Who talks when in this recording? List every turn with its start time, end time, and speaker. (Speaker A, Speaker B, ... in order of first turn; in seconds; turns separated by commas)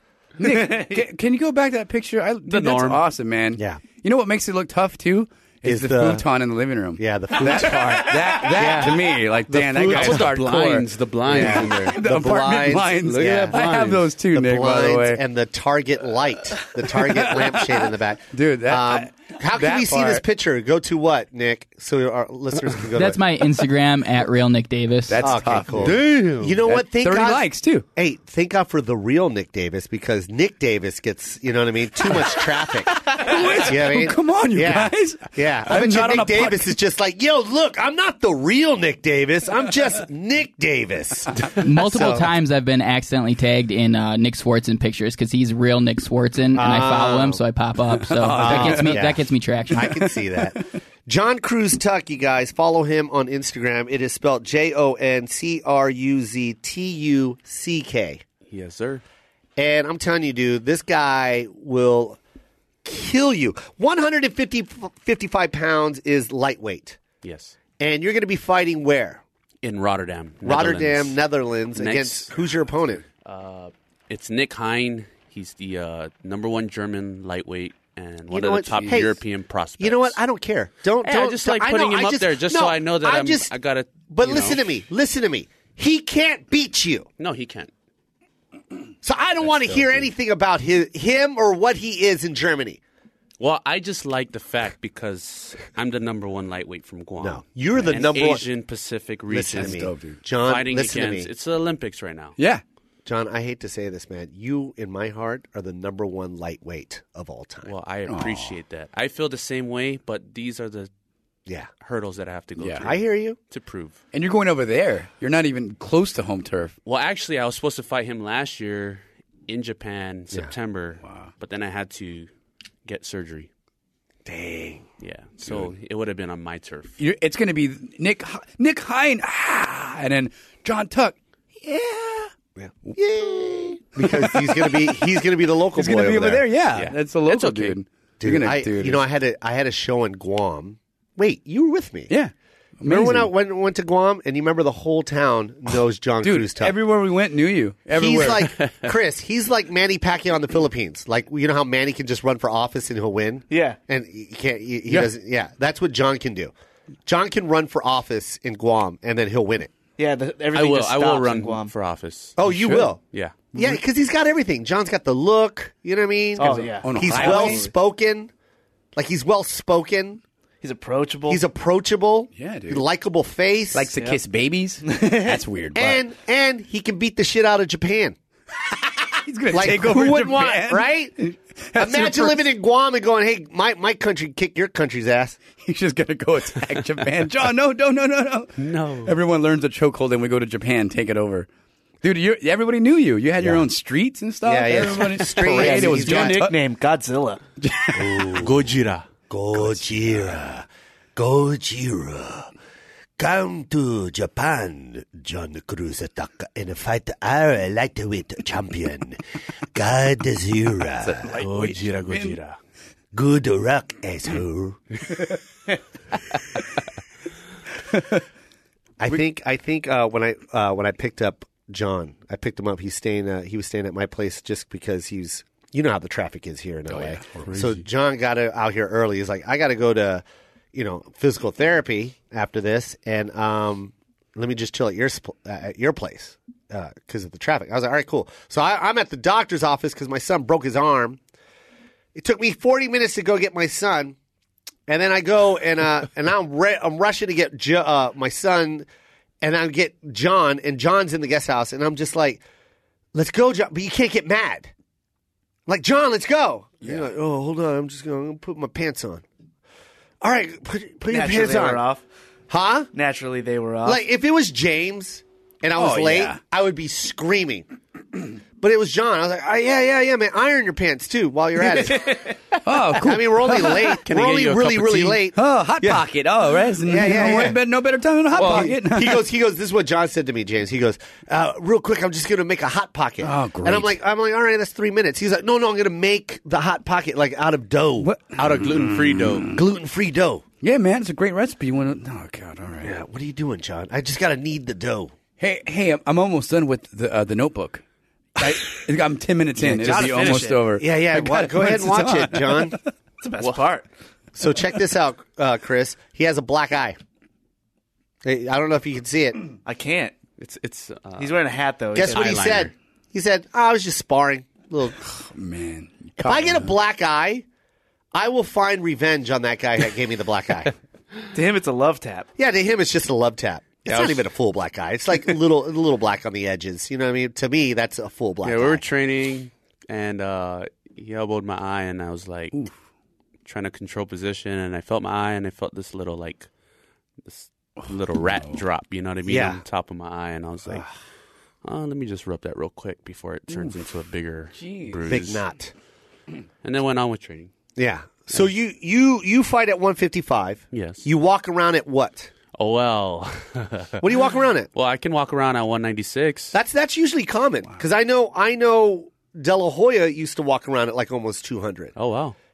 Speaker A: 0.4-15.2, Speaker B: 2.5-3.0, Speaker C: 3.5-3.8, Speaker C: 5.6-6.2, Speaker C: 7.0-9.0, Speaker B: 8.5-12.0, Speaker C: 9.9-10.2, Speaker C: 11.3-23.2, Speaker B: 13.1-14.0, Speaker A: 16.6-20.2, Speaker D: 22.9-25.3, Speaker A: 25.1-27.8, Speaker C: 25.2-42.3, Speaker A: 32.1-36.7, Speaker D: 41.6-49.9, Speaker C: 46.5-47.4, Speaker A: 48.0-49.1, Speaker C: 48.4-49.2, Speaker C: 49.7-58.2, Speaker A: 49.8-50.2, Speaker B: 58.5-59.0, Speaker C: 59.6-62.2, Speaker C: 62.8-67.0, Speaker B: 67.2-67.6, Speaker C: 67.8-69.2, Speaker B: 69.6-71.2, Speaker C: 70.4-73.0, Speaker B: 71.8-72.3, Speaker B: 73.2-80.2, Speaker C: 78.3-79.2, Speaker C: 79.8-83.5, Speaker B: 81.0-84.6, Speaker C: 84.1-87.1, Speaker B: 87.2-87.7, Speaker C: 89.0-92.8, Speaker A: 89.5-89.9, Speaker B: 93.4-99.8, Speaker C: 97.2-98.5, Speaker C: 99.3-101.3, Speaker A: 99.5-100.2, Speaker B: 100.4-102.3, Speaker C: 103.0-107.7, Speaker B: 107.6-110.9, Speaker A: 108.1-108.5, Speaker B: 111.8-114.0, Speaker A: 112.6-112.9, Speaker C: 112.8-113.3, Speaker A: 114.1-116.7, Speaker B: 116.8-122.3, Speaker A: 121.0-121.3, Speaker B: 122.8-123.5, Speaker C: 124.2-124.8, Speaker B: 125.0-127.0, Speaker A: 127.0-132.3, Speaker C: 132.6-136.5, Speaker A: 134.0-135.1, Speaker A: 135.7-139.0, Speaker B: 136.7-137.8, Speaker C: 138.2-142.1, Speaker A: 142.1-143.3, Speaker C: 142.8-146.8, Speaker A: 146.2-148.5, Speaker C: 147.9-156.5, Speaker B: 148.6-148.8, Speaker E: 153.5-153.8, Speaker C: 157.1-159.7, Speaker E: 160.0-161.7, Speaker B: 160.5-162.3, Speaker C: 162.4-163.0, Speaker A: 162.4-163.0, Speaker B: 163.1-163.4, Speaker C: 163.5-168.3, Speaker E: 166.4-167.7, Speaker A: 166.8-167.7, Speaker C: 168.9-170.2, Speaker E: 170.6-171.4, Speaker C: 171.3-173.9, Speaker A: 172.3-172.8, Speaker A: 173.7-176.0, Speaker E: 173.9-174.2, Speaker E: 174.8-175.4, Speaker C: 175.7-178.2, Speaker A: 178.8-182.4, Speaker C: 179.5-181.2, Speaker C: 181.8-185.4, Speaker A: 185.6-191.5, Speaker B: 188.6-189.1, Speaker A: 192.0-196.5, Speaker C: 193.4-193.6, Speaker C: 194.4-196.4, Speaker E: 195.4-197.4, Speaker A: 197.6-198.4, Speaker C: 197.9-198.6, Speaker B: 198.3-199.1, Speaker C: 199.3-202.5, Speaker A: 199.7-200.4, Speaker C: 203.2-209.2, Speaker C: 209.7-211.3, Speaker A: 211.0-212.4, Speaker B: 211.2-212.6, Speaker C: 213.1-214.8, Speaker A: 217.9-218.2, Speaker C: 219.0-241.2, Speaker A: 226.9-227.6, Speaker C: 242.1-244.2, Speaker C: 244.9-248.9, Speaker C: 249.4-252.4, Speaker C: 253.1-254.7, Speaker C: 255.7-259.2, Speaker C: 260.2-261.8, Speaker E: 261.1-262.0, Speaker C: 262.5-262.9, Speaker E: 262.9-264.0, Speaker C: 263.8-267.7, Speaker A: 265.8-266.4, Speaker C: 268.6-272.2, Speaker E: 271.6-272.4, Speaker A: 272.6-274.0, Speaker C: 273.0-276.1, Speaker B: 274.0-275.2, Speaker A: 275.3-279.2, Speaker C: 276.8-277.6, Speaker C: 278.3-288.1, Speaker B: 278.4-278.6, Speaker A: 283.2-283.9, Speaker A: 288.0-289.6, Speaker B: 288.4-289.5, Speaker C: 289.5-290.4, Speaker A: 290.6-293.0, Speaker C: 292.8-295.1, Speaker A: 295.4-297.8, Speaker A: 298.4-302.8, Speaker C: 298.4-298.7, Speaker E: 299.6-300.7, Speaker C: 299.9-302.8, Speaker E: 303.2-303.9, Speaker C: 304.4-307.0, Speaker C: 308.2-309.5, Speaker E: 309.6-310.1, Speaker B: 310.4-311.4, Speaker E: 311.2-312.7, Speaker C: 311.9-315.0, Speaker B: 311.9-312.7, Speaker A: 315.1-316.7, Speaker C: 316.2-317.4, Speaker C: 318.1-320.7, Speaker E: 321.3-322.3, Speaker C: 322.4-328.8, Speaker B: 323.9-324.2, Speaker B: 328.4-332.5, Speaker B: 333.4-336.5, Speaker B: 337.2-340.8, Speaker C: 339.2-339.6, Speaker B: 341.6-345.4, Speaker A: 344.5-345.0, Speaker C: 345.1-345.7, Speaker B: 346.6-347.5, Speaker C: 347.8-352.3, Speaker B: 350.7-351.1, Speaker B: 352.6-354.0, Speaker C: 354.0-354.7, Speaker B: 354.7-356.5, Speaker C: 356.5-361.9, Speaker B: 361.9-362.4